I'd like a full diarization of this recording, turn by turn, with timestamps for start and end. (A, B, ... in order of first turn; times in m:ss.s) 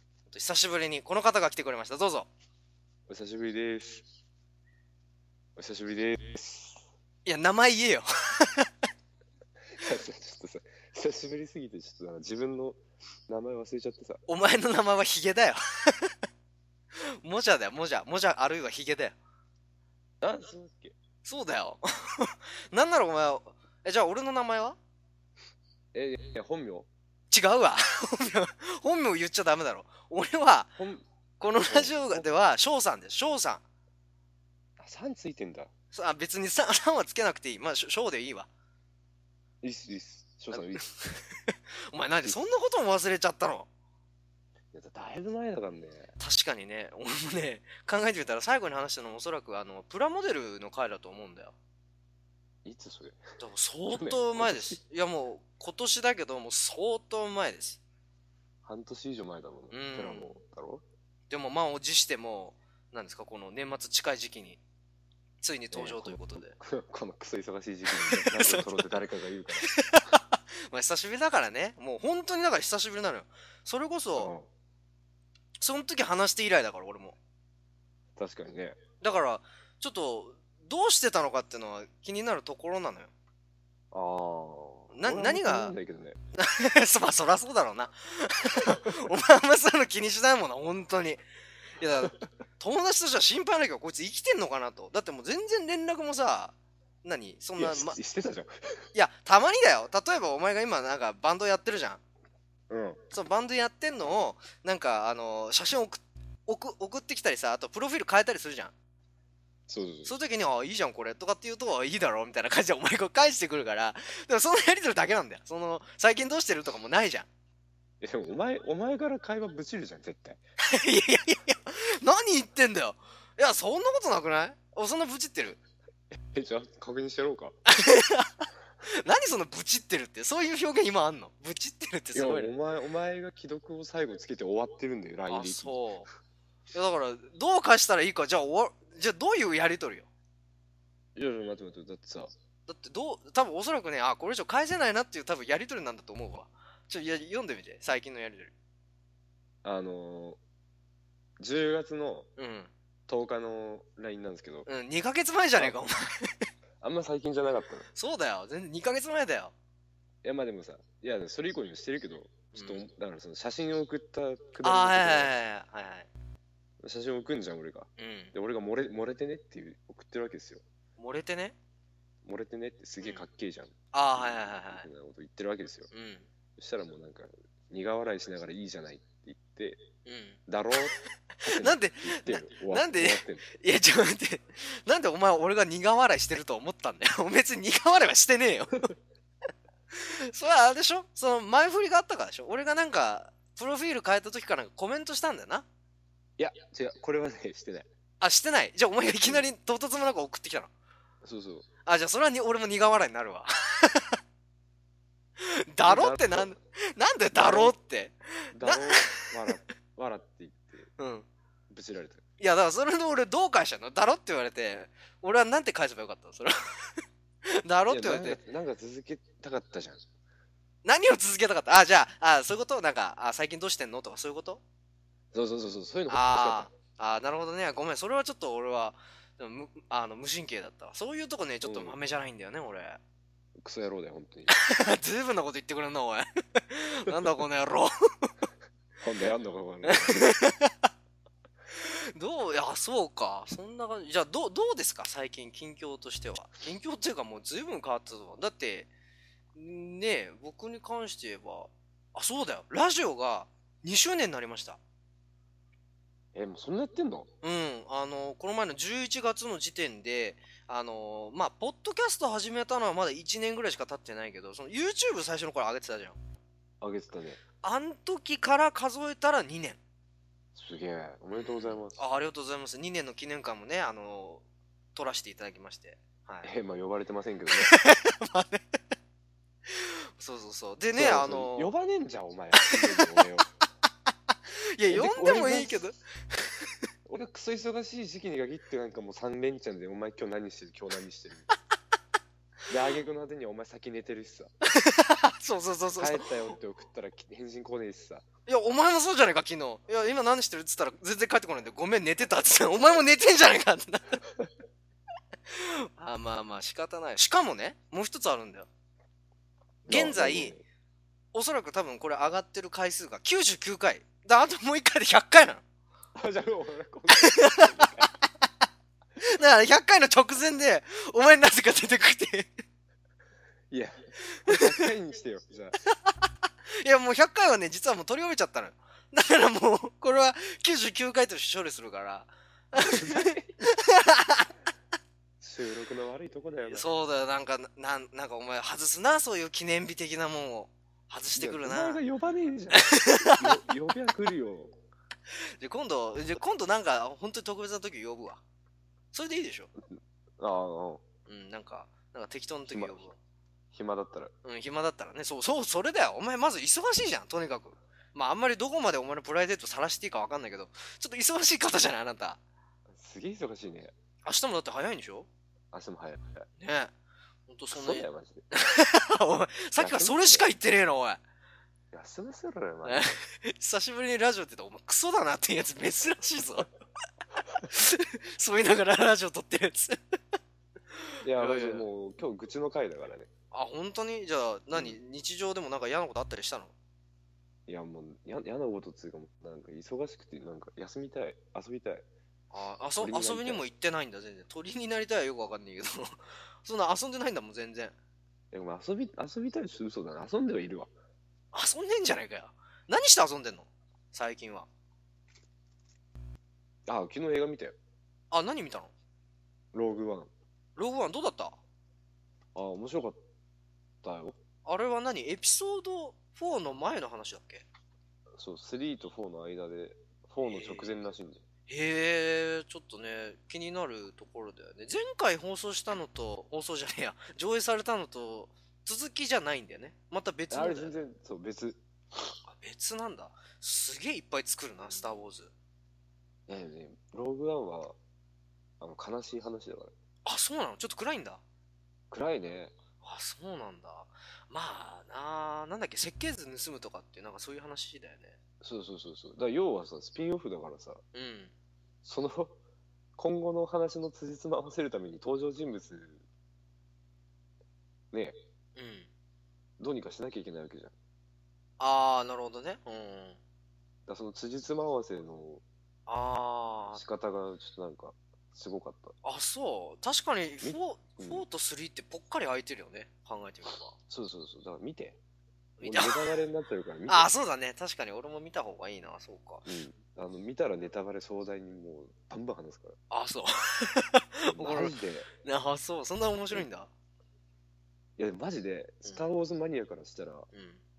0:00.3-0:02.3 A
0:03.1-0:04.0 B
0:05.6-0:06.8 B
0:07.2-0:08.7 A
0:09.8-0:14.2 B
0:14.3-0:16.1 A
0:17.2-0:19.2 A
0:20.2-0:21.0 B
0:21.2-0:24.8 A
0:25.9-0:26.9 B
0:27.3-0:30.8 A
0:30.8-0:31.0 B
0:31.4-0:33.6 A
0:31.6-0:32.2 B
0:34.8-0:35.7 B
0:35.9-0:38.5 A
0:39.6-0:40.8 B
0:40.5-0:43.7 A
0:44.7-0:46.1 B
0:46.2-0:51.5 A
0:52.6-0:53.2 B
0:53.4-0:57.8 A
0:53.9-0:54.8 B
0:58.6-1:00.8 B
0:59.7-1:00.4 A
1:01.3-1:04.6 A
1:05.4-1:06.6 A
1:05.7-1:09.7 B
1:07.9-1:08.9 A
1:09.6-1:14.3 A
1:14.2-1:14.5 B
1:15.6-1:17.2 A
1:18.2-1:18.8 B
1:19.0-1:23.1 A
1:23.9-1:26.2 B
1:24.9-1:25.7 A
1:26.4-1:31.2 A
1:31.8-1:38.0 A
1:37.6-1:38.8 B
1:38.9-1:42.0 A
1:42.7-1:43.0 B
1:43.1-1:48.7 A
1:49.7-1:50.1 B
1:50.0-1:57.3 A
1:58.0-2:00.4 B
2:00.7-2:05.6 A
2:06.2-2:07.6 B
2:07.7-2:12.5 A
2:12.1-2:15.7 B
2:15.3-2:16.1 A
2:16.7-2:20.1 A
2:21.1-2:22.3 B
2:22.7-2:28.5 A
2:29.6-2:30.4 B
2:31.4-2:32.3 B
2:32.4-2:32.7 A
2:33.1-2:34.7 B
2:34.6-2:36.4 A
2:36.8-2:37.9 B
2:37.9-2:39.5 A
2:40.2-2:45.3 B
2:42.5-2:42.9 A
2:44.6-2:46.1 A
2:46.8-2:50.6 B
2:48.0-2:48.3 A
2:51.0-2:51.6 A
2:52.2-2:55.9 B
2:53.0-2:53.3 A
2:53.9-2:54.9 A
2:55.9-2:56.3 A
2:56.6-2:59.8 B
3:00.0-3:08.9 A
3:00.5-3:00.9 B
3:01.4-3:03.4 B
3:09.9-3:15.6 A
3:16.4-3:17.8 B
3:18.2-3:20.7 A
3:19.0-3:19.4 B
3:21.2-3:21.7 B
3:21.8-3:24.2 A
3:25.4-3:29.5 A
3:25.9-3:26.5 B
3:27.3-3:27.8 B
3:28.5-3:30.9 B
3:31.0-3:31.3 A
3:31.7-3:32.2 B
3:32.4-3:38.4 A
3:37.9-3:40.0 B
3:40.8-3:44.6 A
3:45.3-3:46.7 B
3:46.1-3:53.0 A
3:51.6-3:52.0 B
3:53.6-3:54.5 B
3:54.5-3:58.3 A
3:59.0-4:00.2 B
3:59.8-4:00.9 A
4:01.7-4:08.9 A
4:09.5-4:14.8 A
4:16.3-4:17.3 B
4:17.4-4:26.2 A
4:26.8-4:27.4 B
4:27.6-4:29.8 A
4:30.5-4:32.0 B
4:31.3-4:34.4 A
4:34.9-4:36.5 A
4:36.4-4:37.7 B
4:37.5-4:38.6 A
4:39.7-4:41.7 A
4:40.9-4:43.5 B
4:42.8-4:43.2 A
4:44.3-4:46.8 A
4:44.9-4:45.8 B
4:47.1-4:51.4 B
4:52.7-4:54.5 B
4:54.6-4:56.5 A
4:56.0-4:58.2 B
4:58.5-5:04.2 A
5:05.5-5:08.7 A
5:09.8-5:10.6 A
5:09.9-5:10.6 B
5:11.3-5:15.6 A
5:16.2-5:18.1 B
5:17.2-5:17.9 A
5:19.2-5:22.5 A
5:23.7-5:25.8 B
5:24.4-5:24.8 A
5:26.1-5:34.5 A
5:32.7-5:33.5 B
5:35.4-5:36.8 B
5:36.7-5:42.0 A
5:41.4-5:44.7 B
5:42.7-5:43.6 A
5:45.6-5:48.4 A
5:49.1-5:49.7 A
5:49.9-5:51.0 B
5:51.2-5:53.2 A
5:52.7-5:53.1 B
5:53.7-5:54.3 B
5:54.4-6:02.4 A
6:02.9-6:03.9 B
6:04.2-6:05.3 A
6:05.7-6:06.5 B
6:06.6-6:06.9 A
6:07.5-6:11.2 A
6:07.7-6:08.4 B
6:09.8-6:10.5 B
6:11.9-6:13.0 B
6:12.8-6:16.7 A
6:17.7-6:20.0 A
6:20.9-6:21.8 A
6:21.2-6:23.3 B
6:23.5-6:26.7 A
6:27.7-6:32.0 B
6:32.5-6:37.9 A
6:33.0-6:33.6 B
6:38.5-6:40.9 B
6:41.5-6:44.7 A
6:46.8-6:47.8 B
6:48.3-6:48.9 A
6:49.7-6:50.3 B
6:50.8-6:51.6 A
6:52.5-6:53.2 B
6:54.0-6:54.4 B
6:54.6-6:57.6 A
6:58.3-7:01.4 B
7:00.4-7:01.0 A
7:01.7-7:11.0 A
7:10.5-7:12.3 B
7:12.5-7:15.5 A
7:16.5-7:18.0 B
7:18.8-7:19.9 B
7:20.2-7:21.4 A
7:22.1-7:22.8 B
7:23.0-7:28.4 A
7:28.6-7:31.0 B
7:31.1-7:31.5 A
7:32.0-7:32.6 B
7:33.2-7:36.2 B
7:38.7-7:39.1 A
7:39.8-7:40.9 B
7:41.8-7:43.4 A
7:44.1-7:45.6 B
7:46.1-7:47.0 A
7:46.9-7:49.1 B
7:49.2-7:54.0 A
7:50.6-7:51.4 B
7:54.1-7:55.2 B
7:55.8-7:56.2 A
7:55.8-7:57.3 B
7:57.1-7:59.7 A
7:59.6-8:03.0 B
8:03.1-8:06.9 A
8:04.4-8:05.3 B
8:08.2-8:10.5 B
8:10.5-8:10.8 A